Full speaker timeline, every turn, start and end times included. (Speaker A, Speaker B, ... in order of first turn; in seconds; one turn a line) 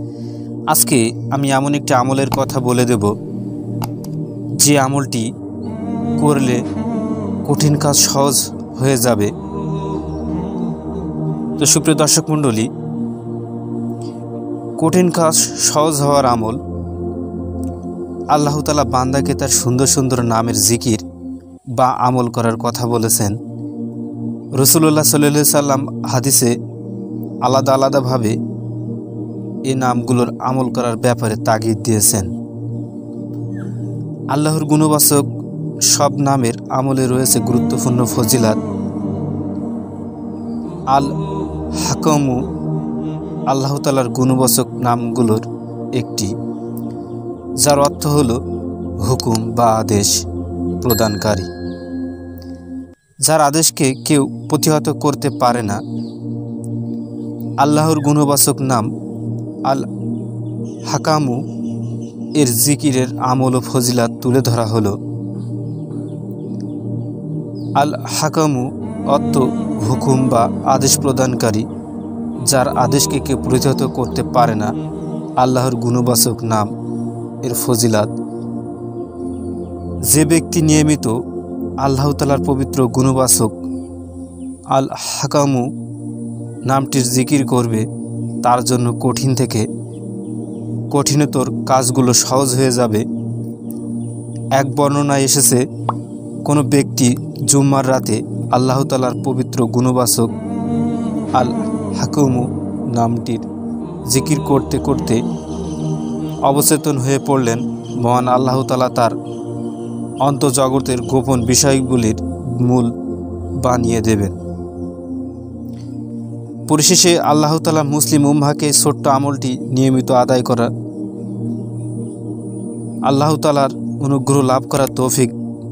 Speaker A: 0.7-3.1
Speaker A: 4.6-5.3
Speaker A: 6.2-6.6
Speaker A: 7.5-9.3
Speaker A: 11.6-12.7
Speaker A: 14.8-16.6
Speaker A: 18.3-21.0
Speaker A: 21.8-23.4
Speaker A: 24.5-26.5
Speaker A: 27.4-28.3
Speaker A: 29.7-32.3
Speaker A: 34.3-35.2
Speaker A: 35.9-38.6
Speaker A: 41.8-42.4
Speaker A: 43.5-46.3
Speaker A: 47.6-48.4
Speaker A: 49.0-50.1
Speaker A: 50.8-51.5
Speaker A: 53.2-55.8
Speaker A: 57.6-58.9
Speaker A: 60.9-61.4
Speaker A: 62.4-65.0
Speaker A: 67.8-71.6
Speaker A: 72.5-74.7
Speaker A: 75.4-76.7
Speaker A: 77.4-78.1
Speaker A: 80.1-81.1
Speaker A: 81.8-83.5
Speaker A: 84.7-85.7
Speaker A: 86.7-87.8
Speaker A: 88.4-89.7
Speaker A: 90.9-93.0
Speaker A: 94.5-95.6
Speaker A: 96.4-100.3
Speaker A: 101.3-103.5
Speaker A: 104.1-105.2
Speaker A: 106.5-109.1
Speaker A: 110.2-112.9
Speaker A: 113.6-114.4
Speaker A: 116.7-120.7
Speaker A: 123.0-125.3